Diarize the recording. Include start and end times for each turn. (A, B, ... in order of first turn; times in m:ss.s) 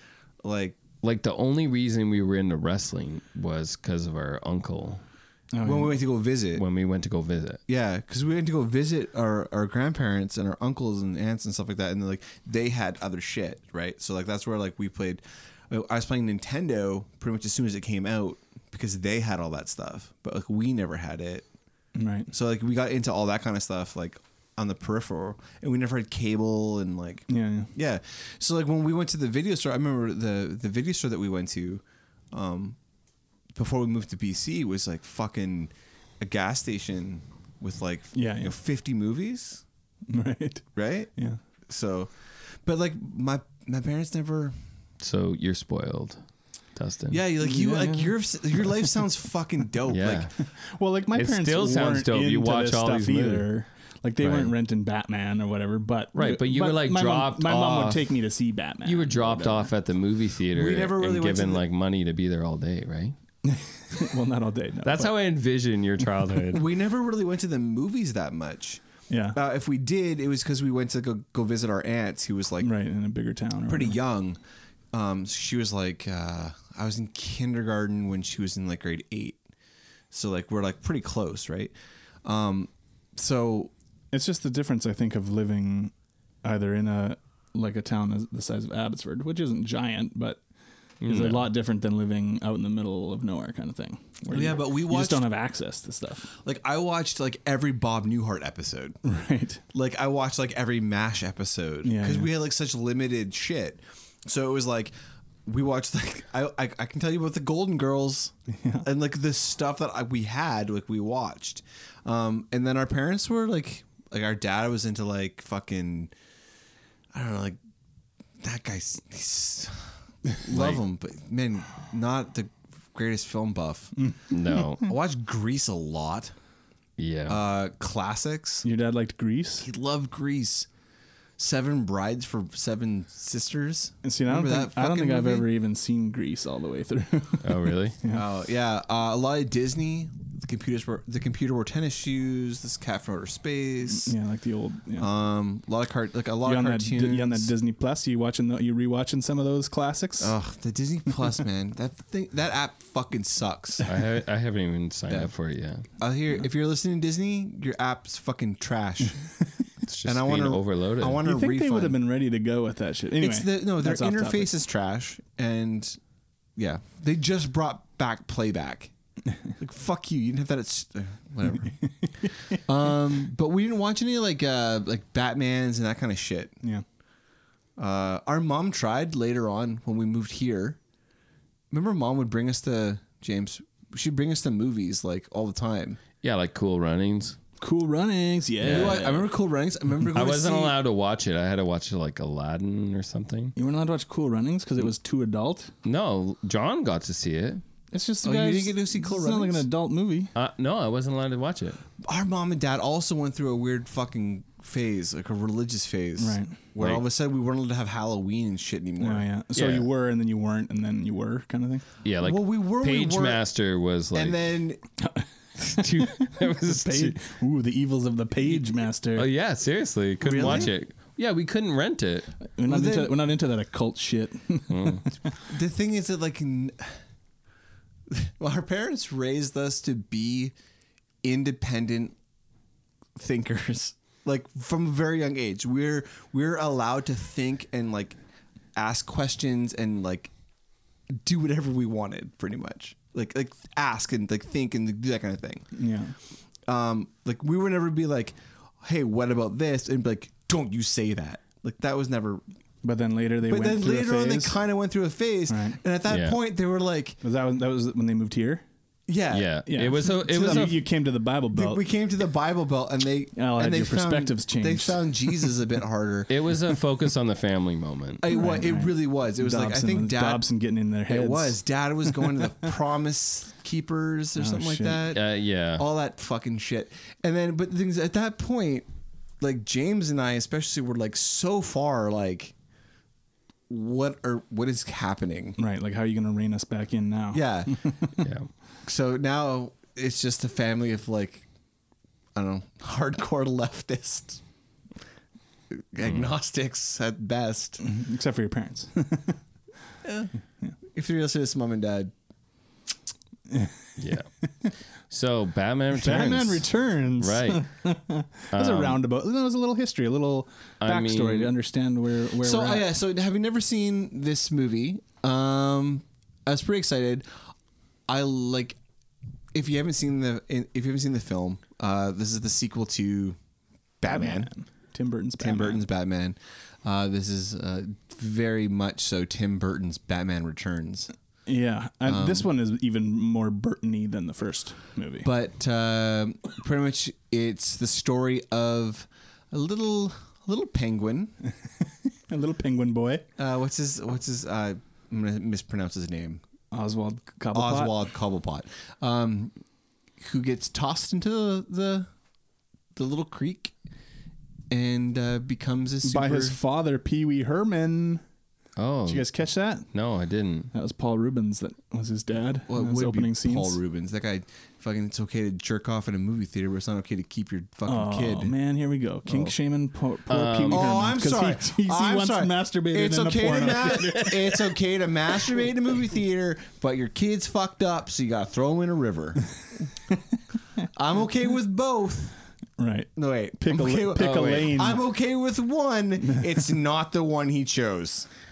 0:00.4-0:00.8 A
0:01.0-0:05.0 B
0:05.5-0:05.9 C
0:05.6-0:06.6 A
0:06.6-0:07.6 B
0:07.7-0:21.5 A
0:22.0-0:22.3 C
0:22.3-0:32.8 A
0:27.3-0:27.7 C
0:33.6-0:39.6 A
0:38.1-0:38.6 C
0:40.1-0:41.4 C
0:40.8-0:41.1 A
0:41.7-0:44.6 A
0:45.0-0:46.2 B
0:46.8-0:47.2 B
0:47.1-0:50.3 A
0:47.4-0:48.2 C
0:49.9-0:50.3 B
0:50.6-0:59.7 C
0:51.2-0:53.5 B
0:54.2-0:54.5 B
0:56.2-0:58.2 B
0:58.8-1:03.2 B
1:00.5-1:01.6 A
1:03.4-1:05.2 C
1:04.8-1:06.6 B
1:06.5-1:08.8 A
1:09.1-1:09.4 C
1:09.3-1:12.7 A
1:12.6-1:14.0 C
1:13.7-1:14.4 A
1:14.9-1:19.4 A
1:20.1-1:23.7 A
1:24.1-1:25.9 C
1:26.4-1:30.4 C
1:31.0-1:31.5 B
1:31.0-1:36.3 C
1:34.3-1:35.3 A
1:36.3-1:39.0 A
1:39.0-1:39.6 C
1:39.7-1:44.9 A
1:41.8-1:42.3 C
1:45.4-1:56.1 A
1:48.5-1:48.9 C
1:57.1-1:57.6 A
1:58.4-2:03.9 A
2:00.5-2:00.8 B
2:04.0-2:04.3 C
2:04.3-2:04.9 B
2:04.8-2:06.3 A
2:07.0-2:07.4 B
2:07.3-2:08.7 A
2:08.6-2:09.7 C
2:09.6-2:10.7 A
2:11.4-2:15.5 A
2:14.0-2:18.2 C
2:17.4-2:18.0 B
2:18.1-2:24.2 A
2:23.9-2:25.1 C
2:25.0-2:27.5 A
2:26.4-2:30.4 C
2:30.2-2:33.9 A
2:33.8-2:35.8 B
2:36.0-2:39.3 A
2:39.9-2:41.2 B
2:40.0-2:42.0 A
2:41.2-2:44.5 C
2:43.2-2:46.0 A
2:46.6-2:48.9 A
2:49.6-2:51.8 A
2:51.8-2:52.6 C
2:52.6-2:56.6 A
2:57.8-3:00.8 A
3:01.7-3:06.0 A
3:06.2-3:07.4 B
3:07.6-3:09.3 C
3:08.6-3:09.0 B
3:08.7-3:10.8 A
3:10.1-3:13.5 B
3:13.6-3:15.7 C
3:15.8-3:17.6 B
3:17.9-3:20.3 C
3:18.2-3:19.7 A
3:20.4-3:21.8 B
3:22.0-3:29.3 A
3:26.2-3:26.6 C
3:29.0-3:31.8 C
3:29.6-3:29.9 B
3:32.0-3:34.6 B
3:32.2-3:33.4 A
3:34.1-3:34.8 A
3:35.0-3:39.3 C
3:35.6-3:37.2 B
3:39.2-3:42.3 B
3:40.2-3:40.7 A
3:42.6-3:45.2 C
3:42.7-3:43.2 A
3:44.7-3:45.0 B
3:45.4-3:47.0 A
3:48.1-3:50.6 A
3:51.2-3:52.2 A
3:53.2-3:58.2 A
3:58.8-4:00.3 A
4:01.1-4:05.7 A
4:05.7-4:06.2 C
4:06.7-4:12.4 A
4:12.8-4:14.6 C
4:13.5-4:17.2 A
4:15.5-4:15.8 C
4:16.1-4:16.4 B
4:17.2-4:18.6 C
4:19.1-4:20.8 A
4:19.3-4:20.8 B
4:19.7-4:21.8 C
4:21.5-4:26.3 A
4:23.4-4:25.5 C
4:26.3-4:28.2 B
4:28.2-4:30.4 A
4:28.3-4:32.4 C
4:31.1-4:38.9 A
4:34.4-4:35.0 C
4:35.1-4:35.9 B
4:39.4-4:42.5 A
4:43.7-4:45.6 A
4:45.6-4:48.2 C
4:47.3-4:47.9 A
4:48.2-4:48.5 B
4:48.8-4:51.5 A
4:52.4-4:54.4 A
4:55.7-4:57.8 A
4:56.1-4:56.3 B
4:57.8-4:59.4 C
5:00.0-5:00.3 A
5:00.9-5:02.1 A
5:03.5-5:04.0 C
5:04.0-5:04.3 B
5:05.1-5:07.7 B
5:06.0-5:12.9 C
5:08.5-5:09.0 B
5:10.8-5:11.5 B
5:12.4-5:17.3 A
5:18.1-5:18.8 A
5:19.5-5:23.4 A
5:24.0-5:24.5 A
5:24.1-5:25.8 C
5:25.4-5:31.1 A
5:31.5-5:35.3 C
5:32.1-5:32.5 A
5:35.2-5:41.4 A
5:41.7-5:43.3 C
5:43.4-5:46.4 A
5:46.7-5:48.0 C
5:47.5-5:49.5 A
5:50.2-5:52.1 A
5:53.0-5:53.7 A
5:54.7-5:56.6 A
5:56.0-5:58.2 C
5:58.8-5:59.4 B
5:59.1-5:59.9 C
5:59.9-6:00.7 B
6:00.7-6:03.8 C
6:02.7-6:08.6 A
6:07.9-6:14.4 C
6:10.3-6:10.9 B
6:10.7-6:19.5 A
6:20.9-6:22.4 A
6:22.8-6:25.0 C
6:23.2-6:28.3 A
6:24.2-6:24.7 B